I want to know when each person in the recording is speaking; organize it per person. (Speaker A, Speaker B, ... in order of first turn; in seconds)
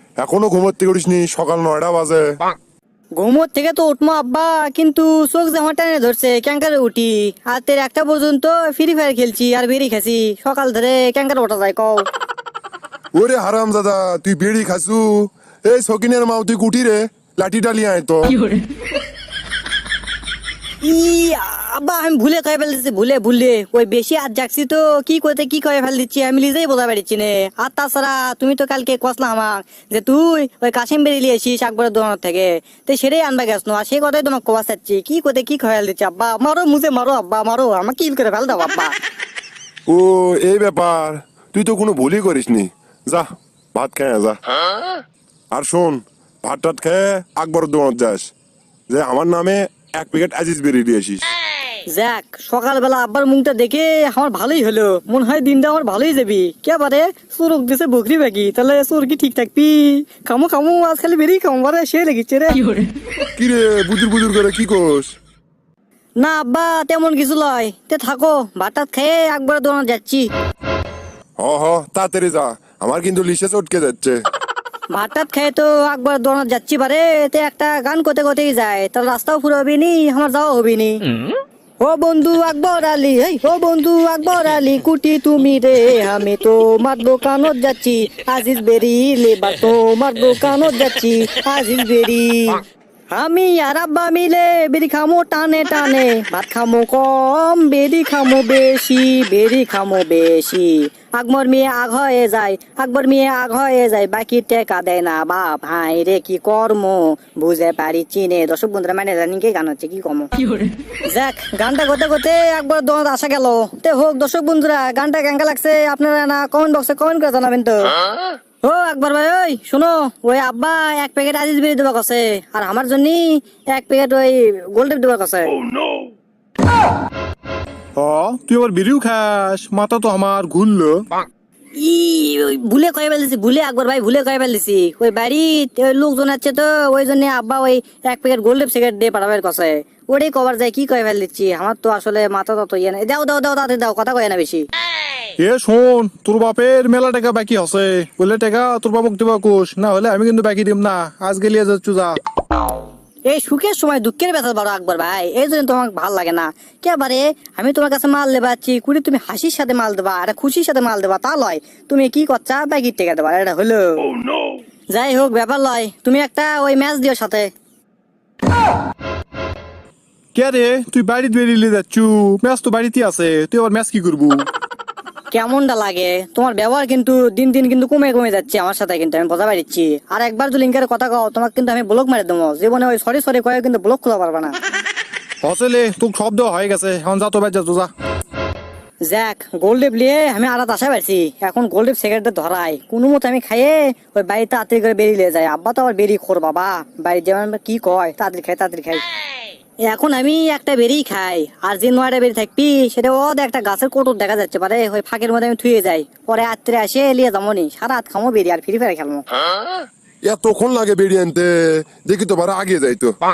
Speaker A: 0.2-2.2, 13.2-18.4, 39.9-44.4, 45.5-48.3, 48.9-51.2, 63.4-65.1, 71.4-74.2, 210.3-211.5, 212.1-213.1
Speaker B: 3.2-12.1, 20.8-38.9, 51.9-62.7, 66.2-70.3, 74.9-81.0, 81.8-110.3, 111.1-117.9, 118.6-125.5, 131.8-144.6, 153.3-164.1, 164.9-167.5, 175.3-184.6, 189.1-199.0, 199.9-209.2
Speaker C: 128.0-131.1, 145.4-152.2, 170.3-174.5, 185.4-187.9